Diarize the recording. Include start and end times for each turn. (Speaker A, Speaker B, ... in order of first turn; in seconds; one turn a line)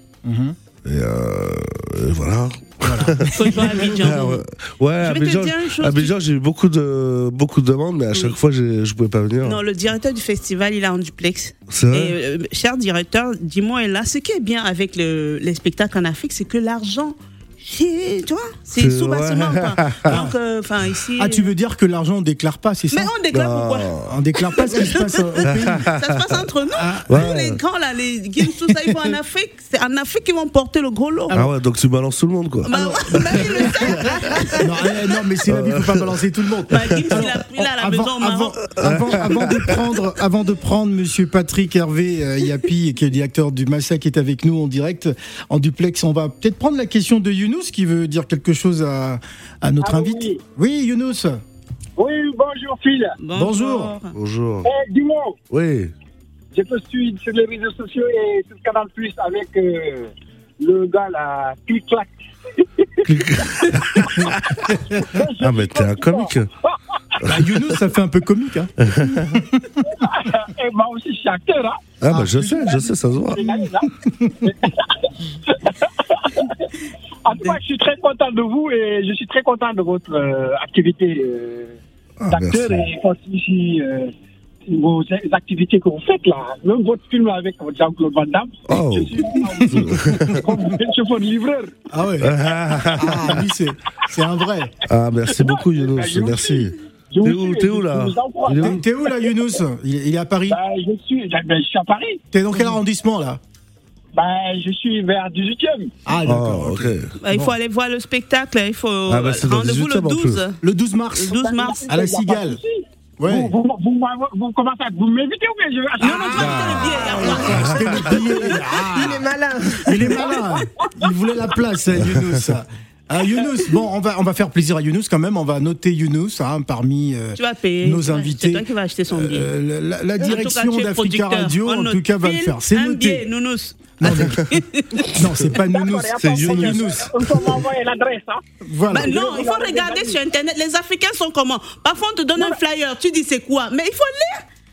Speaker A: 0.2-0.6
Speaker B: 0.8-9.6
Speaker A: 2.8-3.9
Speaker C: 3.2-4.4
Speaker C: 5.0-6.1
Speaker C: 9.4-21.5
Speaker B: 11.7-12.2
Speaker B: 18.8-20.3
Speaker A: 20.1-20.4
Speaker A: 21.2-23.1
Speaker C: 22.9-31.4
Speaker B: 23.3-24.1
Speaker A: 24.0-25.9
Speaker A: 26.7-27.5
Speaker B: 27.1-27.6
Speaker B: 31.3-34.6
Speaker C: 32.6-34.6
Speaker A: 32.7-51.4
Speaker B: 35.5-36.2
Speaker C: 36.7-38.6
Speaker B: 36.8-37.3
Speaker B: 38.8-39.8
Speaker D: 49.8-50.4
Speaker D: 52.0-53.1
Speaker C: 53.2-54.1
Speaker A: 53.4-53.9
Speaker B: 54.1-54.7
Speaker D: 54.6-55.4
Speaker B: 55.5-55.9
Speaker D: 56.5-63.1
Speaker B: 63.0-64.7
Speaker D: 64.4-66.3
Speaker B: 65.4-66.5
Speaker B: 67.2-67.7
Speaker A: 67.2-69.6
Speaker B: 68.9-69.4
Speaker D: 69.8-76.7
Speaker B: 72.0-73.5
Speaker D: 77.2-81.8
Speaker B: 82.2-82.8
Speaker D: 82.3-84.1
Speaker D: 84.7-91.7
Speaker B: 88.7-90.5
Speaker A: 89.5-89.9
Speaker A: 91.9-92.4
Speaker B: 92.2-93.5
Speaker A: 92.9-94.8
Speaker B: 94.9-98.8
Speaker D: 95.3-99.2
Speaker A: 98.6-100.6
Speaker D: 100.5-102.2
Speaker A: 102.3-103.4
Speaker D: 104.1-105.9
Speaker A: 106.0-107.5
Speaker B: 106.2-107.1
Speaker C: 107.2-110.6
Speaker B: 109.1-110.4
Speaker A: 110.6-112.6
Speaker C: 111.1-111.8
Speaker D: 111.3-117.1
Speaker A: 113.2-113.5
Speaker C: 116.0-118.2
Speaker B: 116.4-117.0
Speaker E: 116.5-117.7
Speaker A: 117.1-119.2
Speaker B: 117.5-117.9
Speaker E: 118.4-120.3
Speaker A: 119.8-133.2
Speaker C: 127.3-129.5
Speaker C: 130.2-135.2
Speaker A: 134.0-134.5
Speaker A: 135.1-137.2
Speaker D: 135.7-138.4
Speaker B: 136.2-137.6
Speaker A: 138.6-139.1
Speaker C: 138.9-144.4
Speaker D: 139.0-140.2